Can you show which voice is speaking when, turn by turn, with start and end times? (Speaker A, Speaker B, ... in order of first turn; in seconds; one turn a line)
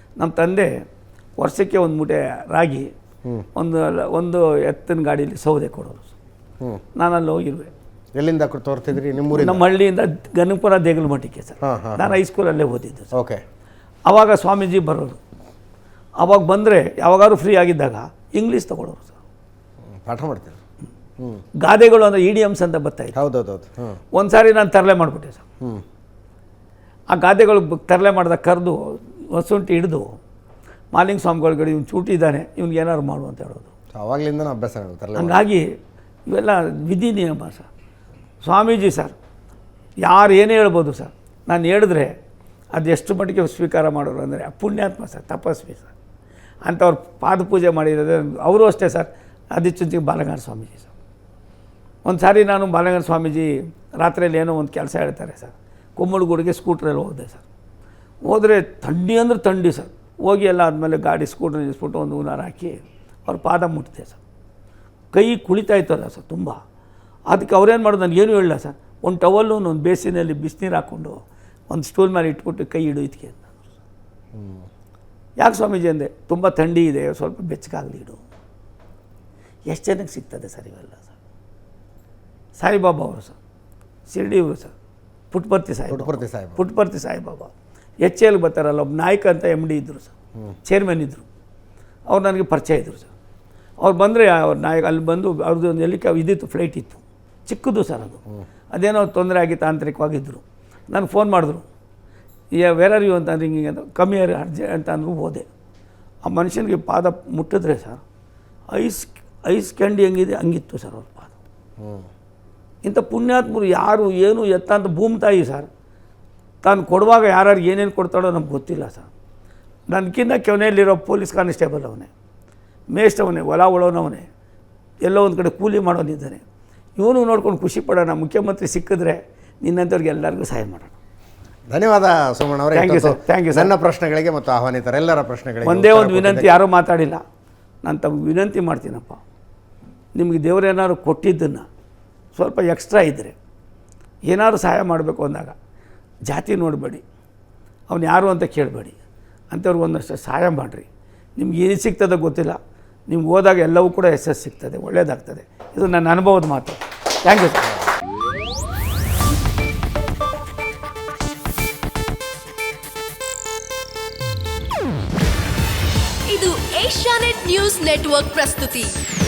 Speaker A: 0.2-0.8
Speaker A: 1.4-2.9
Speaker A: 3.5-6.1
Speaker A: 7.0-7.7
Speaker B: 8.2-9.7
Speaker A: 9.3-13.1
Speaker B: 11.6-12.2
Speaker B: 13.1-13.4
Speaker A: 14.1-15.2
Speaker A: 16.2-19.1
Speaker B: 19.9-20.6
Speaker A: 21.6-23.1
Speaker B: 23.1-24.0
Speaker A: 24.1-25.4
Speaker A: 27.1-30.2
Speaker A: 30.9-33.7
Speaker B: 33.9-35.4
Speaker A: 35.1-37.7
Speaker A: 38.4-39.1
Speaker A: 40.0-42.2
Speaker A: 42.7-45.9
Speaker A: 46.6-50.9
Speaker A: 52.0-57.4
Speaker A: 58.2-64.2
Speaker A: 65.1-66.6
Speaker A: 67.3-73.5
Speaker B: 74.3-74.7
Speaker A: 75.4-78.2
Speaker A: 79.7-81.1
Speaker A: 82.6-83.4
Speaker A: 84.1-84.7
Speaker A: 85.3-90.1
Speaker B: 85.9-86.6
Speaker A: 90.7-91.2
Speaker A: 92.1-93.1
Speaker A: 93.8-98.2
Speaker A: 98.7-101.7
Speaker A: 102.5-105.5
Speaker A: 106.2-108.0
Speaker A: 108.7-111.3
Speaker B: 111.8-112.1
Speaker A: 112.8-115.7
Speaker A: 116.6-119.1
Speaker A: 119.9-122.1
Speaker A: 122.9-124.3
Speaker A: 125.0-126.4
Speaker A: 127.0-130.9
Speaker B: 131.7-136.5
Speaker A: 132.7-133.7
Speaker A: 135.6-137.2
Speaker A: 137.8-139.2
Speaker A: 140.1-141.7
Speaker A: 142.3-143.3
Speaker A: 144.2-145.5
Speaker A: 146.3-147.0
Speaker A: 147.9-148.9
Speaker A: 149.5-157.7
Speaker C: 166.3-168.9